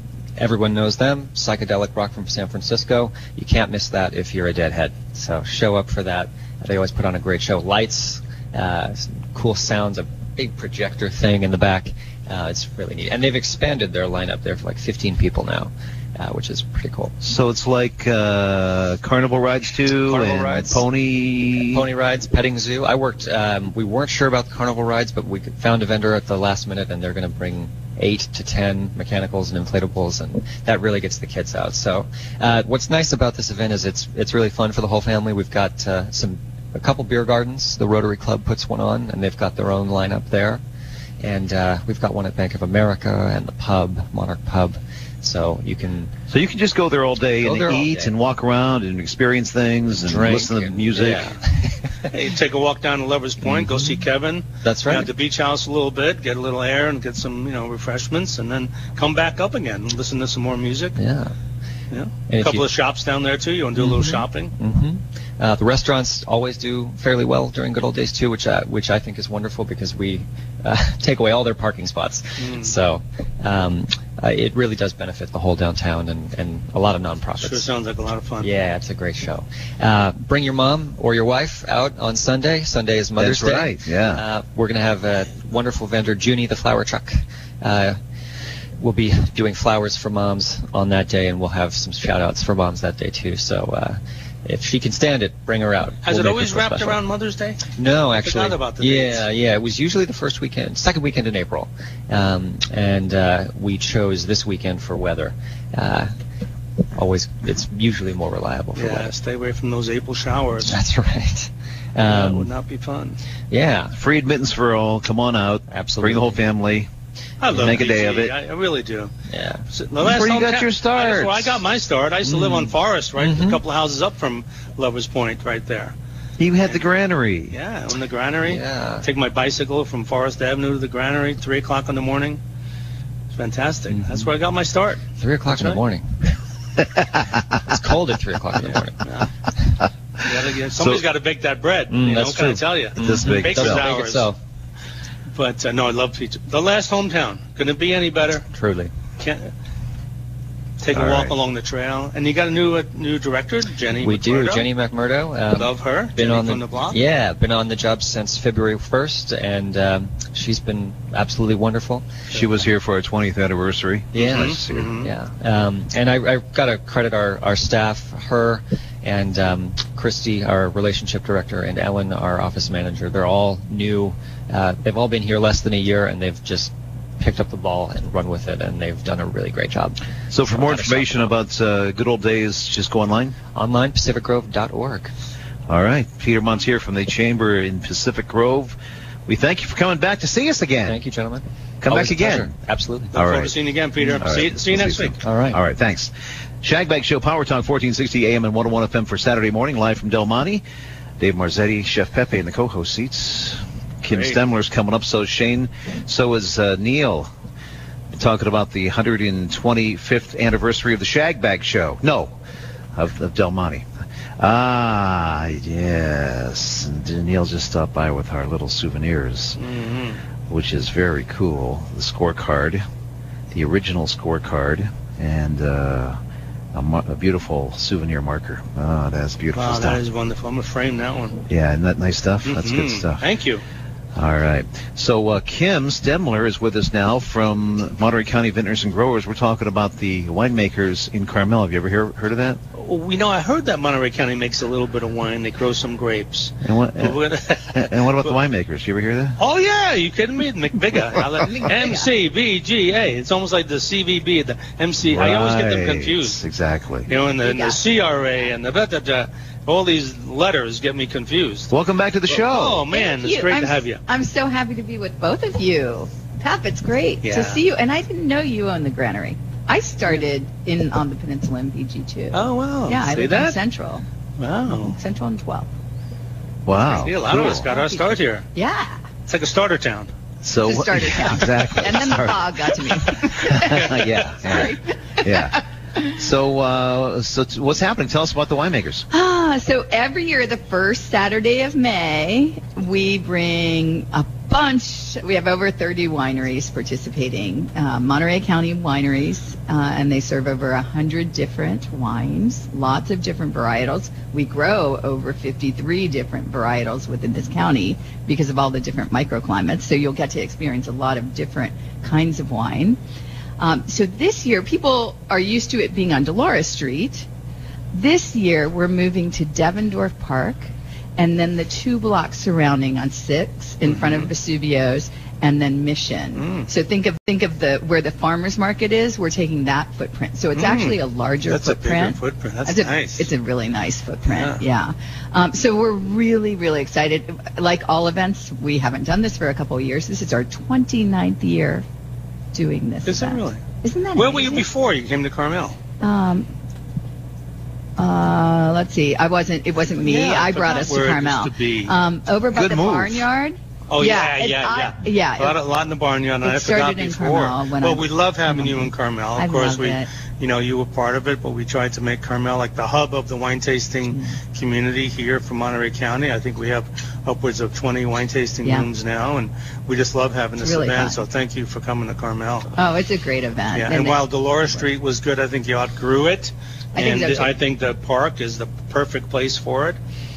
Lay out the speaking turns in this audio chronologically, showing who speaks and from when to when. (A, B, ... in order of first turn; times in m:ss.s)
0:00.4-0:17.1 A
0:17.2-0:21.9 B
0:20.1-0:20.8 C
0:21.7-0:40.6 A
0:41.2-0:46.1 A
0:46.3-0:51.3 B
0:47.4-0:48.1 A
0:50.0-0:51.7 A
0:52.1-1:01.0 C
0:53.4-0:54.0 A
0:54.6-0:55.1 A
1:01.0-1:01.3 A
1:01.9-1:04.5 C
1:02.3-1:02.6 A
1:03.8-1:17.7 A
1:12.4-1:12.7 C
1:17.4-1:18.5 C
1:18.4-1:28.0 A
1:23.2-1:24.2 B
1:28.8-1:37.0 A
1:36.0-1:37.6 C
1:37.8-1:46.1 A
1:38.2-1:39.2 C
1:46.9-1:49.1 A
1:48.7-1:50.8 C
1:50.6-1:52.5 A
1:52.1-1:53.2 C
1:53.5-1:53.9 A
1:54.0-1:56.9 B
1:55.7-1:56.4 A
1:57.4-1:59.1 C
1:57.6-1:58.4 B
1:59.3-1:59.6 A
1:59.7-2:05.9 C
2:00.0-2:01.6 B
2:02.2-2:03.6 A
2:06.4-2:07.6 B
2:07.5-2:12.4 C
2:08.4-2:09.1 A
2:13.3-2:15.8 C
2:13.9-2:14.3 A
2:15.2-2:16.3 A
2:17.6-2:19.0 A
2:19.0-2:19.3 C
2:20.2-2:24.3 C
2:20.8-2:21.0 B
2:21.9-2:24.4 A
2:23.0-2:23.9 B
2:25.3-2:28.4 C
2:28.5-2:28.9 A
2:29.2-2:29.5 C
2:30.8-2:34.7 C
2:30.9-2:31.3 B
2:34.0-2:42.1 A
2:35.5-2:37.0 C
2:42.3-2:44.9 B
2:44.1-3:01.3 A
2:44.2-2:45.1 C
3:00.3-3:03.4 B
3:03.6-3:05.1 A
3:05.7-3:11.0 B
3:10.9-3:13.1 A
3:11.8-3:12.5 B
3:13.1-3:13.6 B
3:13.1-3:15.2 C
3:14.2-3:16.1 B
3:15.2-3:15.6 A
3:16.6-3:20.6 B
3:21.2-3:27.3 B
3:24.1-3:24.4 C
3:28.1-3:32.4 B
3:32.9-3:39.6 B
3:39.6-3:40.2 C
3:40.5-3:42.8 B
3:43.5-3:46.2 B
3:46.7-3:50.0 B
3:49.5-3:51.4 C
3:51.5-3:53.2 B
3:52.4-3:53.6 C
3:54.1-4:02.6 B
4:02.7-4:08.3 C
4:06.6-4:07.2 B
4:07.7-4:09.4 B
4:09.4-4:16.4 C
4:11.7-4:12.1 D
4:15.0-4:17.1 B
4:17.1-4:21.7 C
4:17.4-4:17.8 D
4:21.7-4:22.8 B
4:22.3-4:24.0 C
4:22.9-4:34.1 D
4:27.2-4:27.6 C
4:32.3-4:33.6 C
4:34.4-4:35.0 C
4:34.8-4:35.7 D
4:36.6-4:37.6 B
4:36.7-4:38.4 C
4:36.7-4:39.0 D
4:39.3-4:40.1 C
4:40.4-4:45.6 B
4:40.6-4:46.2 D
4:46.2-4:49.1 B
4:49.1-5:13.0 D
5:13.6-5:17.2 D
5:17.9-5:41.8 D
5:23.8-5:24.3 C
5:26.3-5:26.7 C
5:30.6-5:33.3 C
5:34.2-5:34.6 C
5:42.5-5:44.7 D
5:43.0-5:43.6 C
5:44.1-5:45.8 C
5:46.0-5:46.5 D
5:48.0-5:55.6 D
5:50.0-5:52.0 C
5:52.5-5:53.3 B
5:53.9-6:12.7 C
5:56.4-6:00.1 D
6:04.1-6:04.4 D
6:10.6-6:11.2 D
6:12.8-6:14.9 D
6:13.7-6:20.0 C
6:16.9-6:17.5 D